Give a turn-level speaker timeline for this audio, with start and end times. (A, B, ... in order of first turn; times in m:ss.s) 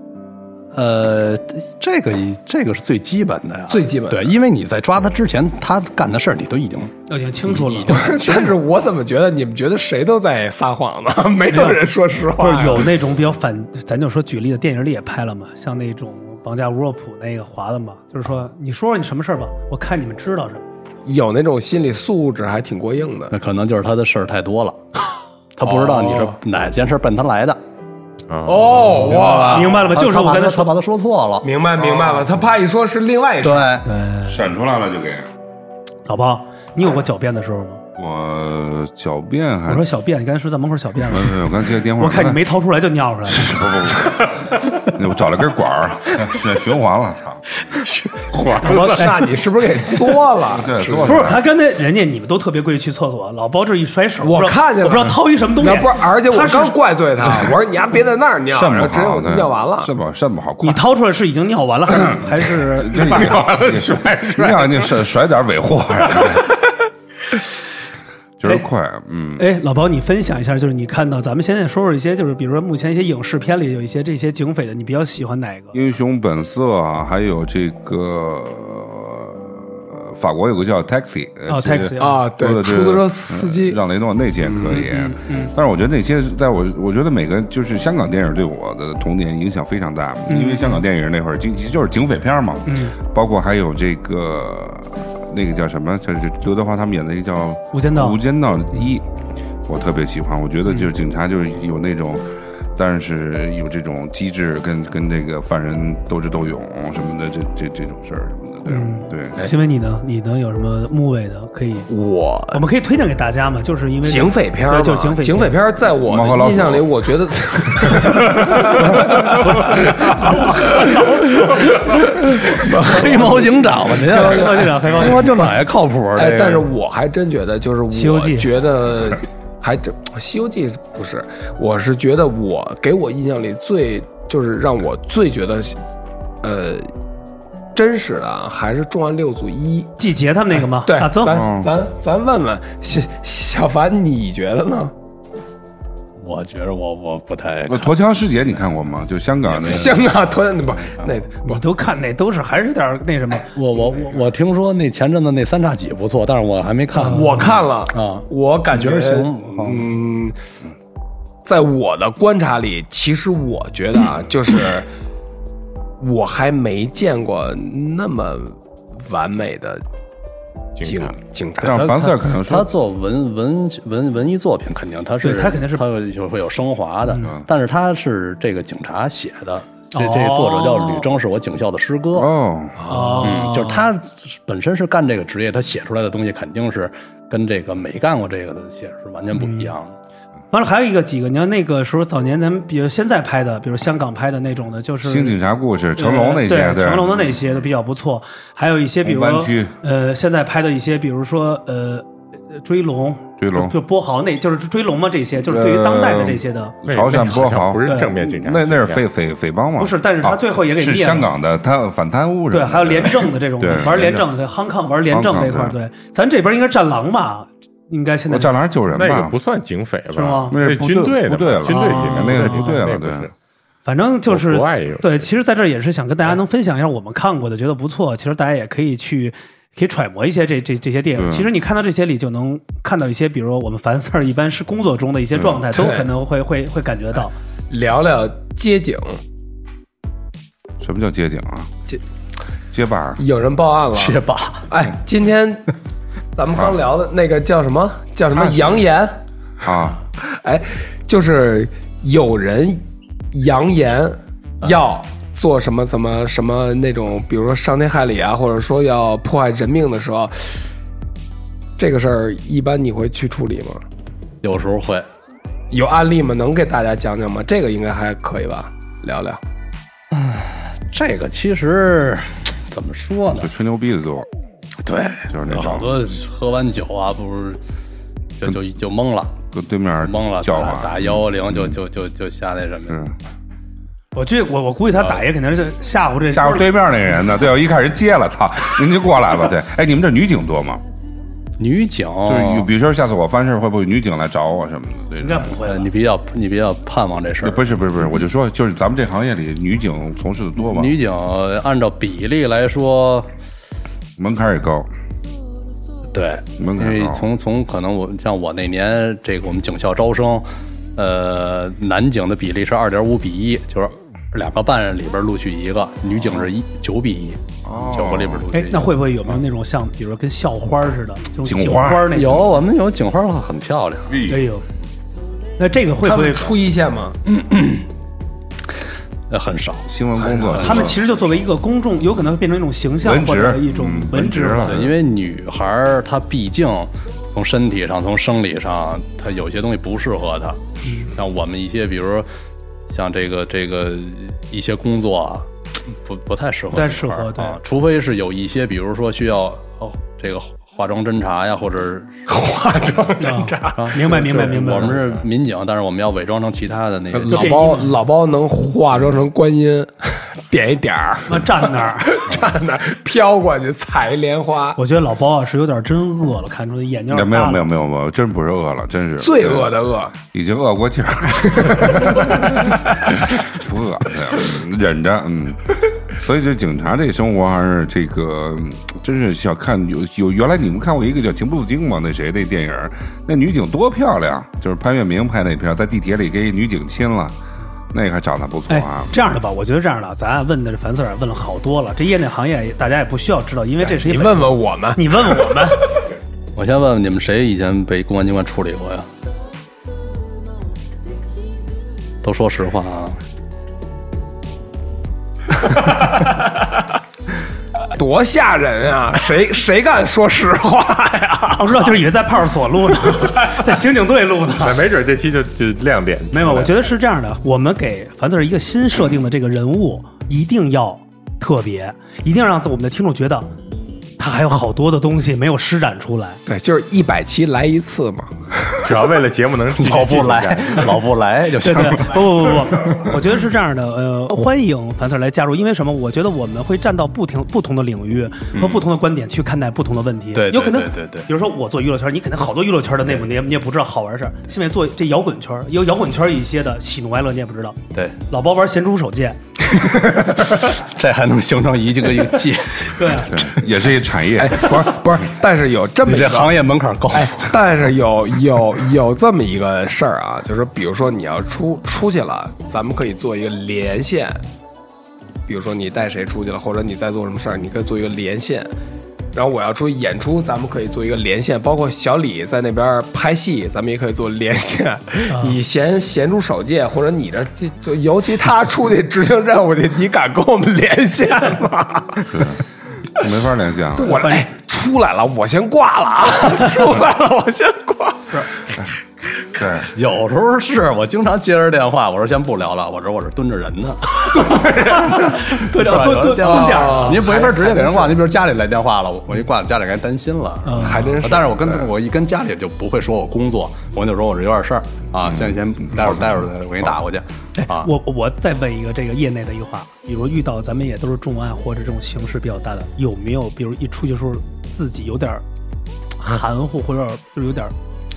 0:00.7-0:06.9 A
0:03.7-0:04.3 B
0:07.1-0:08.1 C
0:07.5-0:08.6 A
0:07.9-0:12.9 B
0:11.5-0:11.8 C
0:12.4-0:20.6 C
0:21.0-0:23.4 B
0:23.3-0:24.8 A
0:25.6-0:27.6 A
0:25.6-0:26.4 B
0:28.3-0:28.6 D
0:28.4-0:29.8 B
0:28.8-0:31.5 A
0:29.4-0:30.7 C
0:31.4-0:33.8 B
0:33.4-0:33.8 A
0:33.8-0:34.4 C
0:34.2-0:35.3 E
0:36.0-0:37.8 C
0:38.0-0:39.8 E
0:39.7-0:41.4 C
0:41.1-0:42.4 E
0:42.0-0:43.6 C
0:43.3-0:47.4 E
0:47.8-0:51.2 B
0:48.7-0:49.0 A
0:50.5-0:51.4 E
0:51.0-0:56.8 C
0:54.2-0:59.9 B
0:58.5-1:00.8 E
1:00.6-1:03.4 C
1:02.8-1:06.6 E
1:03.0-1:04.8 D
1:08.4-1:09.4 E
1:09.4-1:15.8 C
1:15.7-1:39.0 E
1:21.5-1:22.2 C
1:22.0-1:23.8 B
1:24.4-1:24.8 B
1:24.7-1:25.5 C
1:30.3-1:30.8 C
1:32.6-1:33.0 C
1:37.7-1:38.2 C
1:39.6-1:49.4 E
1:48.6-1:51.9 C
1:51.9-1:52.6 B
1:52.5-1:55.6 C
1:54.0-2:05.0 B
1:56.0-1:56.9 E
2:00.6-2:06.7 A
2:04.0-2:05.6 C
2:06.1-2:15.8 B
2:07.9-2:08.5 C
2:16.4-2:16.9 B
2:17.7-2:19.9 B
2:20.0-2:21.4 C
2:20.8-2:24.9 B
2:21.2-2:21.7 E
2:26.2-2:27.9 A
2:27.7-2:30.0 E
2:29.6-2:31.6 B
2:29.6-2:29.8 A
2:31.4-2:34.1 C
2:33.5-2:39.9 A
2:37.0-2:37.4 C
2:37.0-2:40.4 B
2:41.4-2:44.9 B
2:46.0-2:49.8 B
2:50.8-2:51.1 D
2:50.8-2:51.9 B
2:51.6-2:52.7 E
2:51.6-3:02.3 A
2:55.2-2:55.8 C
2:59.9-3:01.0 C
3:02.1-3:02.8 E
3:02.8-3:03.4 B
3:02.9-3:03.9 C
3:03.2-3:09.9 A
3:09.3-3:09.7 C
3:10.5-3:15.4 C
3:15.0-3:17.4 E
3:16.0-3:26.8 C
3:19.0-3:19.7 E
3:23.4-3:23.8 E
3:25.4-3:34.3 E
3:26.8-3:29.0 D
3:27.8-3:28.2 C
3:29.8-3:31.3 C
3:32.5-3:38.6 C
3:35.1-3:35.8 E
3:38.3-3:39.4 E
3:38.9-3:43.3 D
3:40.1-3:40.8 C
3:40.5-3:43.3 E
3:41.6-3:42.8 C
3:43.8-3:57.3 C
3:44.3-3:45.2 D
3:51.2-3:51.5 E
3:55.3-3:55.6 E
3:55.7-3:56.1 B
3:57.7-3:59.2 B
4:00.8-4:01.7 E
4:02.7-4:03.2 E
4:03.2-4:05.7 B
4:03.9-4:04.7 A
4:06.3-4:09.2 B
4:08.4-4:08.7 E
4:09.6-4:10.0 E
4:10.3-4:20.6 B
4:21.8-4:23.8 B
4:24.4-4:25.1 A
4:25.7-4:29.4 B
4:30.1-4:33.5 A
4:33.3-4:34.3 E
4:34.8-4:37.6 A
4:35.3-4:36.0 E
4:38.4-4:39.4 A
4:39.5-4:41.8 E
4:40.0-4:43.0 A
4:42.9-4:43.1 E
4:44.1-4:46.7 C
4:46.3-4:50.8 E
4:51.6-4:52.7 A
4:52.2-4:55.5 E
4:55.2-4:55.9 C
4:55.6-4:57.7 A
4:57.4-5:00.9 E
5:00.6-5:03.3 A
5:04.2-5:04.9 E
5:06.1-5:19.0 A
5:06.6-5:07.2 E
5:17.6-5:18.4 E
5:18.5-5:22.5 C
5:21.4-5:22.2 E
5:22.1-5:24.2 A
5:24.1-5:24.4 E
5:24.3-5:24.6 C
5:25.6-5:26.6 C
5:26.0-5:27.2 B
5:27.3-5:27.9 A
5:29.3-5:29.9 A
5:29.9-5:31.0 E
5:30.2-5:30.6 B
5:30.5-5:30.9 A
5:30.6-5:34.8 C
5:33.0-5:35.0 E
5:34.6-5:42.3 A
5:40.8-5:41.1 C
5:42.9-5:52.2 A
5:46.7-5:47.6 C
5:52.3-5:54.5 B
5:53.2-5:55.0 C
5:53.7-5:57.8 A
5:57.1-6:04.8 B
5:57.3-5:57.9 C
6:01.3-6:02.2 C
6:04.8-6:07.7 C
6:07.1-6:27.4 E
6:09.2-6:10.1 B
6:11.6-6:12.7 B
6:27.9-6:29.2 E
6:28.7-6:35.8 C
6:33.8-6:35.7 B
6:36.5-6:39.1 A
6:42.2-6:43.2 A
6:47.9-6:52.0 B
6:51.5-6:54.8 C
6:54.6-6:56.8 D
6:56.3-7:03.5 C
7:04.2-7:06.4 C
7:06.4-7:08.9 B
7:08.8-7:11.0 D
7:09.8-7:12.6 A
7:11.6-7:29.4 C
7:18.6-7:18.8 A
7:20.3-7:21.3 A
7:30.4-7:33.5 A
7:32.8-7:33.3 C
7:33.3-7:35.2 E
7:34.4-7:36.6 B
7:36.0-7:37.5 A
7:37.1-7:44.4 B
7:45.5-7:48.7 B
7:49.3-8:02.4 B
7:55.3-7:55.6 C
8:02.3-8:02.6 E
8:03.1-8:04.2 E
8:04.0-8:08.4 B
8:04.1-8:04.5 C
8:09.6-8:09.9 E
8:09.9-8:27.9 A
8:14.4-8:15.6 B
8:15.1-8:17.4 C
8:16.2-8:18.2 B
8:20.6-8:21.1 C
8:20.8-8:21.9 B
8:25.3-8:26.4 E
8:27.6-8:35.4 C
8:36.2-8:37.7 C